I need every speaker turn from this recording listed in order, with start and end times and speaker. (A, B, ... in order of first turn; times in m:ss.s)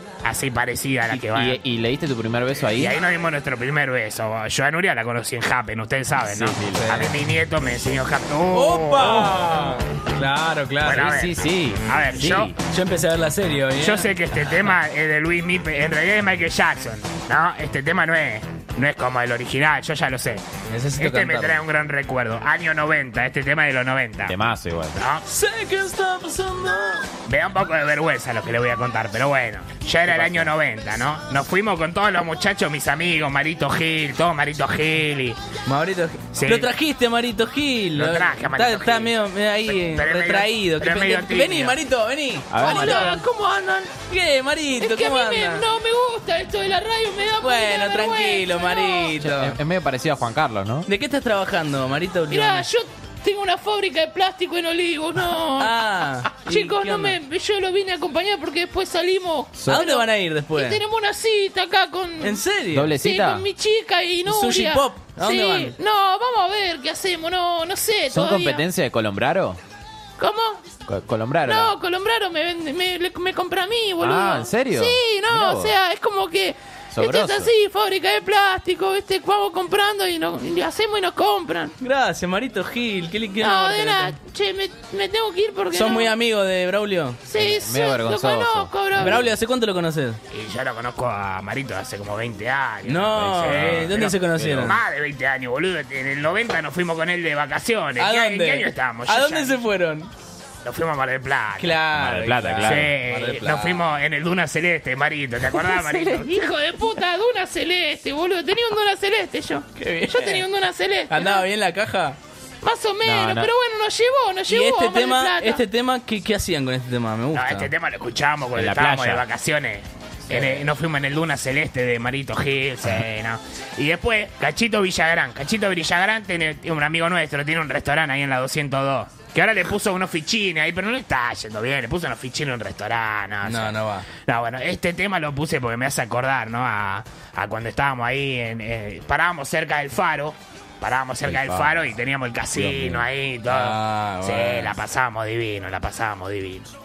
0:00.2-0:01.6 A
0:01.1-0:03.0 B
0:02.7-0:09.5 A
0:06.2-0:07.0 B
0:06.7-0:07.2 C
0:08.5-0:11.2 C
0:10.8-0:12.5 A
0:10.9-0:12.5 B
0:12.7-0:14.7 C
0:13.8-0:20.4 A
0:20.7-0:21.6 C
0:21.0-0:24.4 A
0:24.2-0:25.0 B
0:25.0-0:25.2 A
0:25.2-0:27.1 C
0:27.2-0:35.4 A
0:35.6-0:43.3 C
0:36.3-0:36.7 A
0:37.9-0:39.1 A
0:39.6-0:41.8 A
0:42.5-0:43.1 B
0:42.6-0:44.0 D
0:43.9-0:45.6 C
0:44.7-0:49.2 D
0:47.4-0:49.6 C
0:49.2-0:50.9 B
0:50.8-0:52.7 C
0:52.3-0:55.8 D
0:55.5-0:57.2 C
0:56.4-1:02.4 D
0:59.5-0:59.9 B
0:59.6-1:00.8 C
1:02.2-1:03.0 C
1:02.7-1:03.5 B
1:03.0-1:08.6 D
1:04.2-1:05.8 C
1:08.1-1:09.6 B
1:10.2-1:10.6 D
1:10.9-1:11.8 B
1:11.4-1:21.8 D
1:14.0-1:15.8 B
1:16.9-1:17.5 B
1:21.8-1:24.2 C
1:23.4-1:26.1 D
1:25.7-1:27.2 C
1:27.2-1:29.3 D
1:27.4-1:29.2 B
1:28.9-1:30.2 C
1:30.3-1:39.6 A
1:32.8-1:34.8 C
1:33.2-1:34.8 B
1:38.0-1:40.1 C
1:40.6-1:41.8 A
1:41.6-1:43.8 C
1:41.9-1:42.9 B
1:42.6-1:46.4 A
1:45.5-1:51.4 D
1:49.7-1:50.5 C
1:51.1-1:52.2 C
1:52.6-1:55.6 D
1:53.0-1:53.5 B
1:54.5-1:57.7 C
1:57.3-2:26.7 A
1:58.5-1:59.2 B
2:13.4-2:14.1 C
2:21.2-2:21.9 B
2:22.5-2:23.1 B
2:23.5-2:24.8 C